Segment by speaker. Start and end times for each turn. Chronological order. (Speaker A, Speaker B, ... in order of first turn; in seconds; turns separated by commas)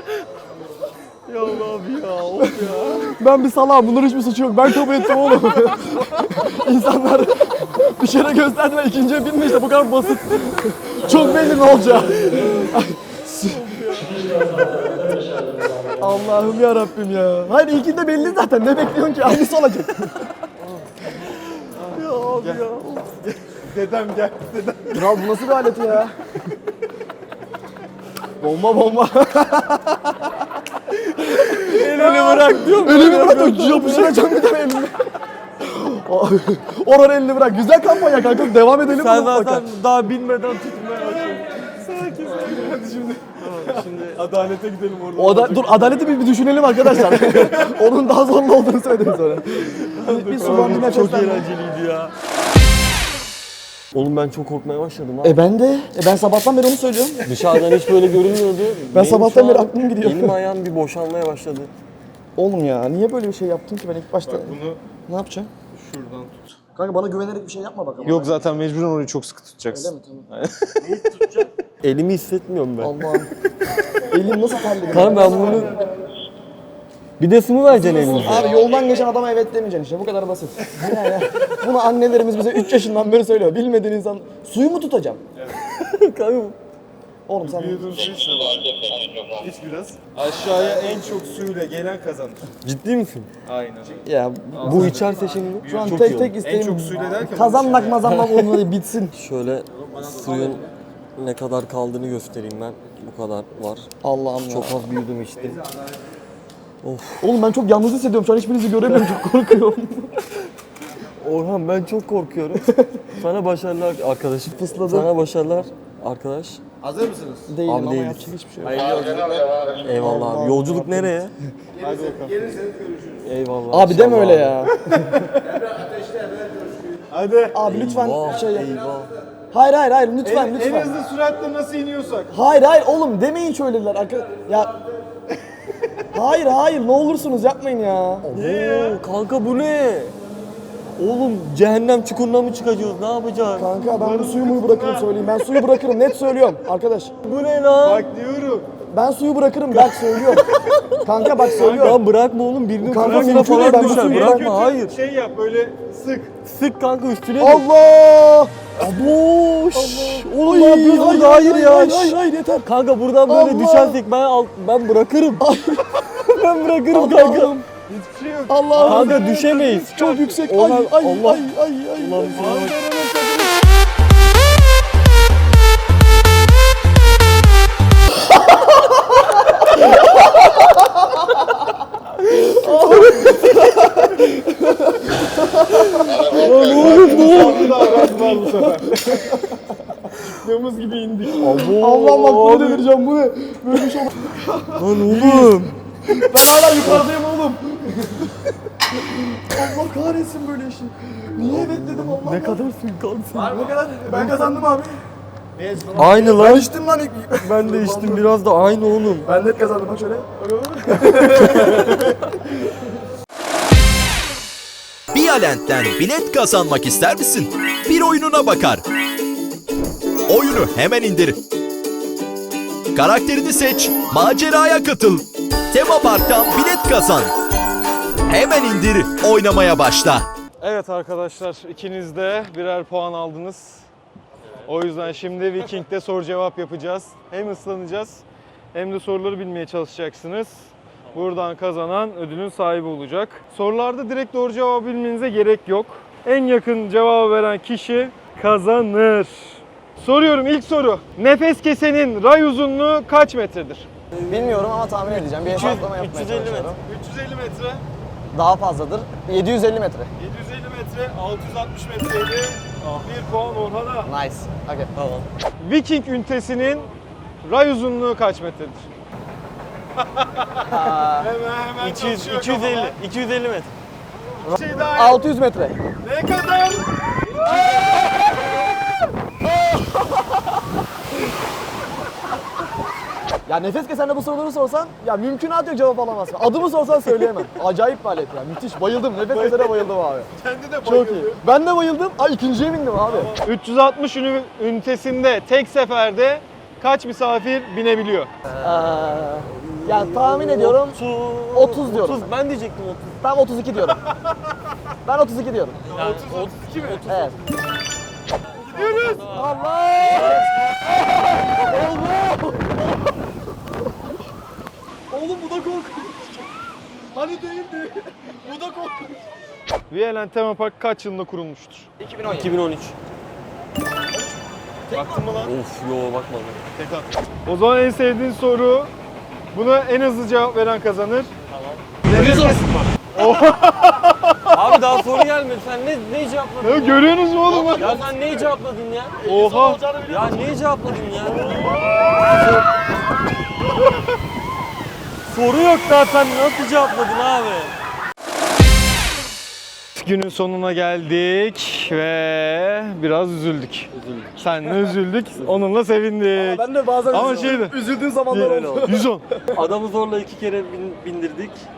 Speaker A: 1.3-3.0, Speaker B: 3.0-13.6, Speaker A: 5.0-5.3, Speaker A: 13.4-15.2, Speaker B: 16.0-20.1, Speaker A: 21.8-23.3, Speaker C: 23.6-25.1, Speaker B: 24.9-26.1, Speaker B: 28.4-30.3, Speaker B: 31.2-35.0, Speaker A: 31.4-34.2, Speaker B: 35.6-39.6, Speaker A: 38.8-41.6, Speaker C: 41.7-43.2, Speaker A: 43.4-45.5, Speaker B: 45.1-51.5, Speaker A: 49.8-52.1, Speaker A: 53.9-55.4, Speaker B: 55.2-57.3, Speaker A: 57.2-61.7, Speaker B: 58.9-60.4, Speaker B: 62.4-64.5, Speaker C: 64.3-64.8, Speaker B: 65.1-65.5, Speaker C: 65.7-66.5, Speaker B: 66.8-68.3, Speaker C: 68.0-70.7, Speaker B: 69.7-70.3, Speaker A: 70.9-73.0, Speaker B: 72.8-73.3, Speaker B: 74.0-75.8, Speaker A: 74.9-75.8, Speaker A: 77.2-78.6, Speaker B: 77.9-85.2, Speaker A: 85.7-86.5, Speaker B: 87.3-87.9, Speaker C: 87.4-92.5, Speaker A: 92.6-93.3, Speaker C: 93.5-94.0, Speaker B: 94.0-95.0, Speaker C: 94.5-95.1, Speaker A: 94.6-96.3, Speaker B: 95.6-99.1, Speaker C: 96.4-98.0, Speaker A: 98.1-98.5, Speaker A: 99.1-103.9, Speaker B: 104.0-104.8, Speaker A: 104.4-105.6, Speaker A: 106.8-107.3, Speaker B: 107.2-110.2, Speaker A: 111.2-116.6, Speaker B: 112.7-113.1, Speaker B: 114.5-115.1, Speaker C: 116.8-117.4, Speaker B: 117.5-118.9, Speaker A: 117.6-121.3, Speaker B: 120.0-121.2, Speaker C: 121.8-122.5, Speaker A: 123.2-124.6, Speaker B: 123.7-125.4, Speaker C: 127.1-127.5, Speaker B: 127.5-128.7, Speaker A: 127.7-129.1, Speaker B: 129.5-131.0, Speaker C: 130.2-132.3, Speaker B: 132.3-134.8, Speaker B: 136.1-138.3, Speaker A: 138.3-140.1, Speaker C: 138.3-139.0, Speaker A: 141.0-143.7, Speaker B: 143.6-147.1, Speaker C: 143.8-145.1, Speaker A: 147.2-148.1, Speaker C: 147.8-148.7, Speaker B: 148.9-150.4, Speaker A: 149.7-154.9, Speaker B: 151.0-152.0, Speaker C: 151.6-151.9, Speaker B: 152.8-154.5, Speaker C: 153.0-156.3, Speaker A: 156.4-157.7, Speaker B: 157.4-159.0, Speaker A: 158.8-165.4, Speaker B: 159.7-162.7, Speaker B: 163.3-164.0, Speaker B: 165.4-166.0, Speaker A: 166.2-167.6, Speaker B: 166.9-167.7, Speaker C: 167.9-170.2, Speaker B: 168.5-172.6, Speaker A: 168.8-171.4, Speaker A: 172.0-172.8, Speaker C: 172.3-173.5, Speaker B: 182.6-189.6, Speaker A: 185.9-187.7, Speaker C: 186.5-189.1, Speaker C: 190.2-191.5, Speaker A: 191.4-192.8, Speaker B: 191.5-195.4, Speaker A: 194.8-195.8, Speaker C: 195.1-195.6, Speaker B: 196.2-198.3, Speaker A: 196.8-197.0, Speaker B: 198.9-202.6, Speaker A: 201.4-203.7, Speaker B: 203.4-205.0, Speaker C: 205.6-206.0, Speaker A: 205.9-206.7, Speaker B: 206.0-208.3, Speaker A: 207.4-209.3, Speaker B: 209.2-212.3, Speaker D: 215.1-218.8, Speaker D: 220.3-221.4, Speaker D: 222.9-227.3, Speaker D: 228.3-230.3, Speaker C: 230.6-233.9, Speaker C: 234.7-253.9, Speaker A: 254.1-256.7, Speaker B: 254.3-256.8, Speaker C: 256.8-257.8, Speaker B: 258.3-260.1, Speaker C: 260.2-264.1, Speaker B: 264.1-264.9, Speaker A: 264.9-265.2, Speaker C: 265.6-266.9, Speaker C: 267.4-268.9, Speaker B: 270.7-271.3, Speaker C: 271.2-273.0, Speaker A: 271.8-273.7, Speaker B: 274.4-275.8, Speaker C: 274.5-275.2, Speaker C: 276.0-277.7, Speaker B: 283.4-290.3, Speaker C: 289.3-289.8, Speaker C: 290.3-291.3, Speaker B: 290.8-293.3, Speaker C: 293.1-298.3, Speaker B: 298.6-301.0, Speaker A: 298.6-303.2, Speaker B: 301.5-302.3, Speaker B: 303.2-304.0, Speaker B: 305.0-305.9, Speaker A: 305.9-307.4, Speaker C: 305.9-306.5, Speaker B: 307.1-307.4, Speaker A: 308.5-310.4, Speaker C: 308.7-309.2, Speaker B: 309.3-310.4, Speaker B: 311.5-312.7, Speaker B: 315.1-316.3, Speaker B: 317.1-319.1, Speaker C: 319.9-321.9, Speaker B: 322.1-322.5, Speaker A: 322.2-322.9, Speaker B: 324.9-325.3, Speaker C: 324.9-325.5, Speaker A: 325.4-326.6, Speaker C: 326.8-328.9, Speaker C: 329.5-331.3, Speaker A: 332.1-332.6, Speaker C: 332.1-332.6, Speaker B: 332.1-332.6, Speaker C: 333.1-334.4, Speaker A: 334.5-341.8, Speaker C: 336.6-338.0, Speaker C: 339.2-339.8, Speaker B: 339.4-340.1, Speaker A: 345.3-347.8, Speaker C: 350.0-357.8, Speaker A: 353.9-354.8, Speaker B: 356.3-359.1, Speaker C: 358.3-359.2, Speaker A: 358.5-358.8, Speaker A: 359.5-361.6